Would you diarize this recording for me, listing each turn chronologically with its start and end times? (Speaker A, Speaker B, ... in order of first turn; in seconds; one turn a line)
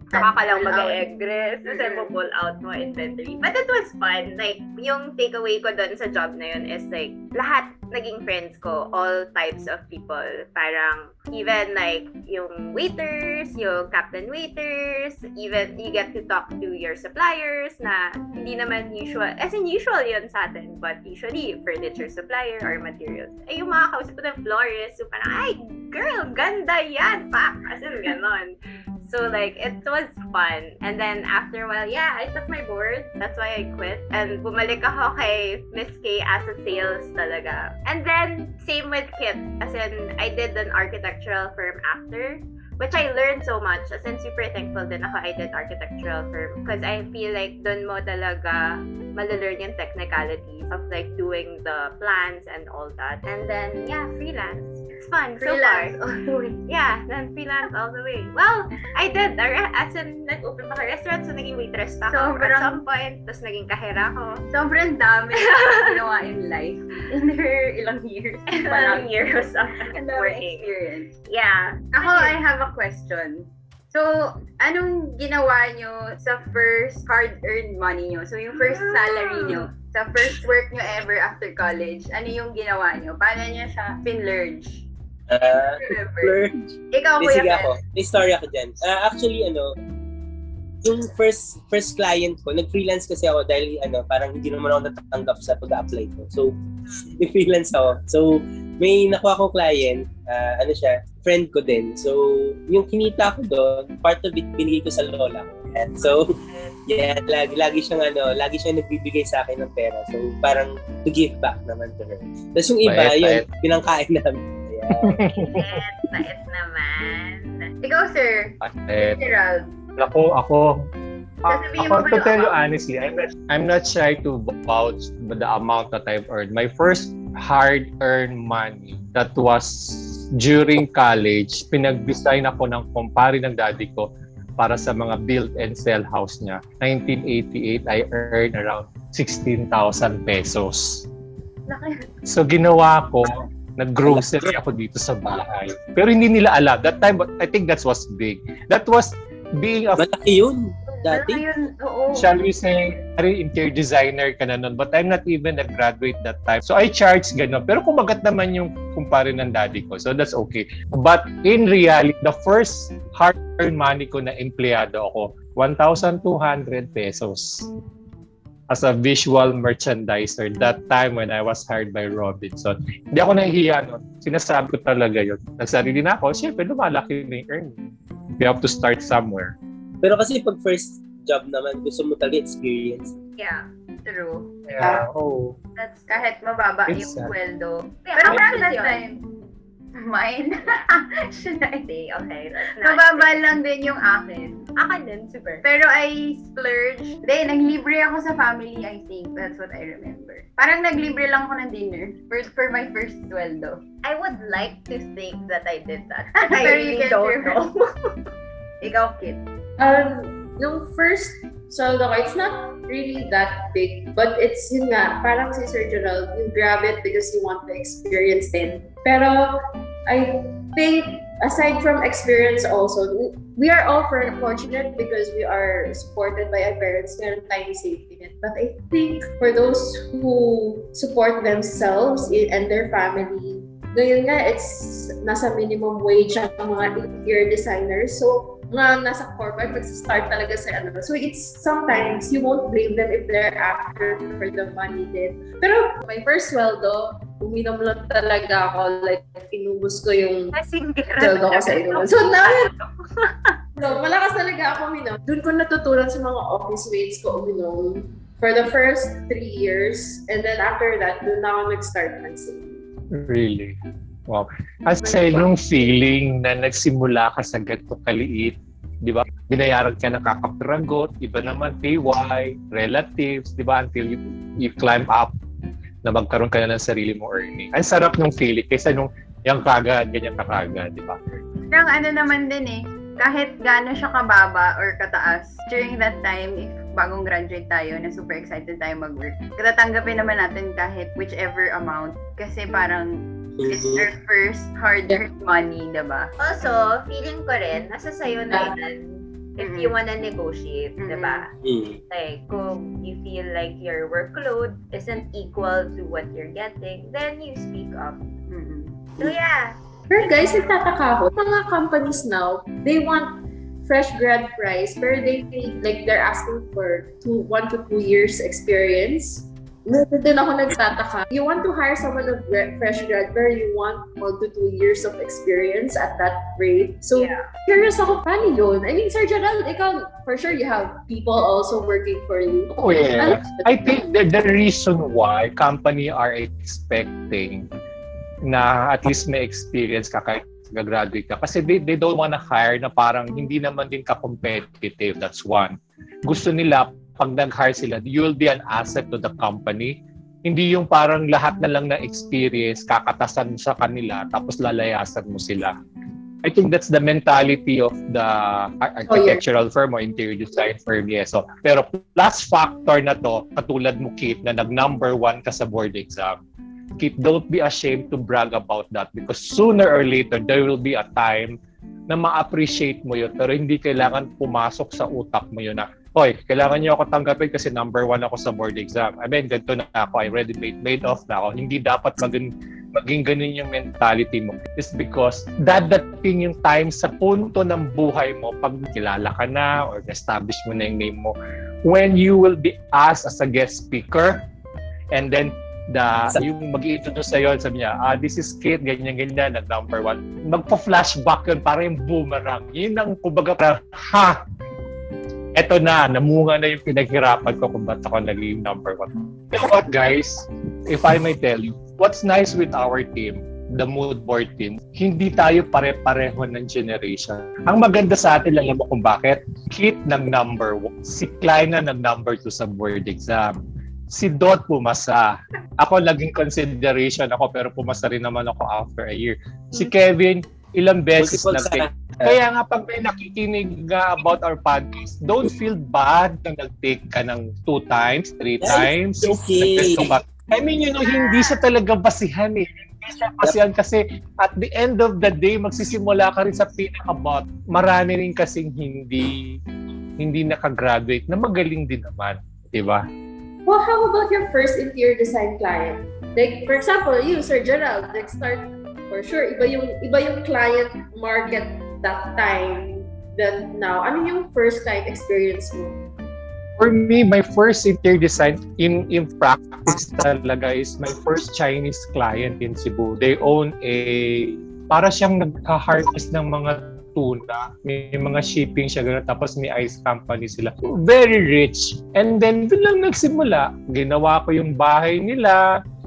Speaker A: 0.1-1.0
Speaker B: 0.1-55.9
Speaker A: 1.6-2.1
Speaker A: 55.4-56.6
Speaker B: 56.7-64.5
Speaker A: 62.1-62.8
Speaker A: 64.5-69.1
Speaker B: 65.5-65.8
Speaker B: 68.5-70.7
Speaker A: 69.9-71.1
Speaker B: 71.3-72.4
Speaker A: 71.9-84.9
Speaker B: 78.5-79.7
Speaker C: 85.3-89.7
Speaker A: 85.8-86.4
Speaker A: 86.9-87.7
Speaker C: 90.8-96.5
Speaker C: 97.2-106.3
Speaker B: 106.0-106.8
Speaker C: 106.9-115.2
Speaker D: 112.8-113.5
Speaker D: 115.0-115.5
Speaker B: 115.3-117.7
Speaker A: 117.8-119.7
Speaker D: 118.6-119.2
Speaker D: 120.0-120.8
Speaker D: 121.4-141.1
Speaker A: 121.5-122.5
Speaker A: 141.7-142.1
Speaker D: 142.2-143.2
Speaker D: 143.8-150.0
Speaker C: 144.1-144.3
Speaker C: 150.0-151.4
Speaker A: 150.9-152.3
Speaker D: 152.1-167.7
Speaker D: 168.7-177.8
Speaker D: 178.4-179.5
Speaker C: 180.0-183.1
Speaker B: 183.4-183.7
Speaker A: 184.1-184.5
Speaker D: 184.7-185.6
Speaker B: 185.8-186.3
Speaker A: 186.1-189.2
Speaker D: 186.9-187.3
Speaker B: 188.0-189.0
Speaker A: 189.9-191.9
Speaker B: 191.8-193.3
Speaker A: 192.8-194.7
Speaker B: 194.8-195.6
Speaker A: 195.6-203.8
Speaker B: 204.0-207.8
Speaker A: 206.4-207.6
Speaker A: 208.8-209.4
Speaker E: 209.8-250.5
Speaker B: 250.5-253.5
Speaker E: 251.2-252.7
Speaker E: 253.8-262.8
Speaker D: 263.1-263.8
Speaker D: 264.3-275.3
Speaker D: 276.0-281.2
Speaker A: 281.7-296.3
Speaker C: 293.6-294.1
Speaker B: 296.4-301.5
Speaker A: 299.6-299.9
Speaker A: 301.0-301.5
Speaker C: 301.6-302.0
Speaker B: 302.1-308.2
Speaker A: 308.5-309.1
Speaker B: 309.2-309.8
Speaker E: 310.1-333.9
Speaker B: 327.1-327.4
Speaker D: 332.8-337.7
Speaker D: 338.4-355.7
Speaker D: 356.4-366.4
Speaker E: 359.1-359.4
Speaker D: 367.0-371.6
Speaker D: 372.1-391.3
Speaker D: 391.8-394.4
Speaker D: 395.1-404.4
Speaker D: 405.5-449.6
Speaker C: 431.2-432.4
Speaker C: 438.6-440.1
Speaker B: 441.1-441.5
Speaker D: 450.2-453.0
Speaker E: 453.6-466.0
Speaker D: 466.8-485.6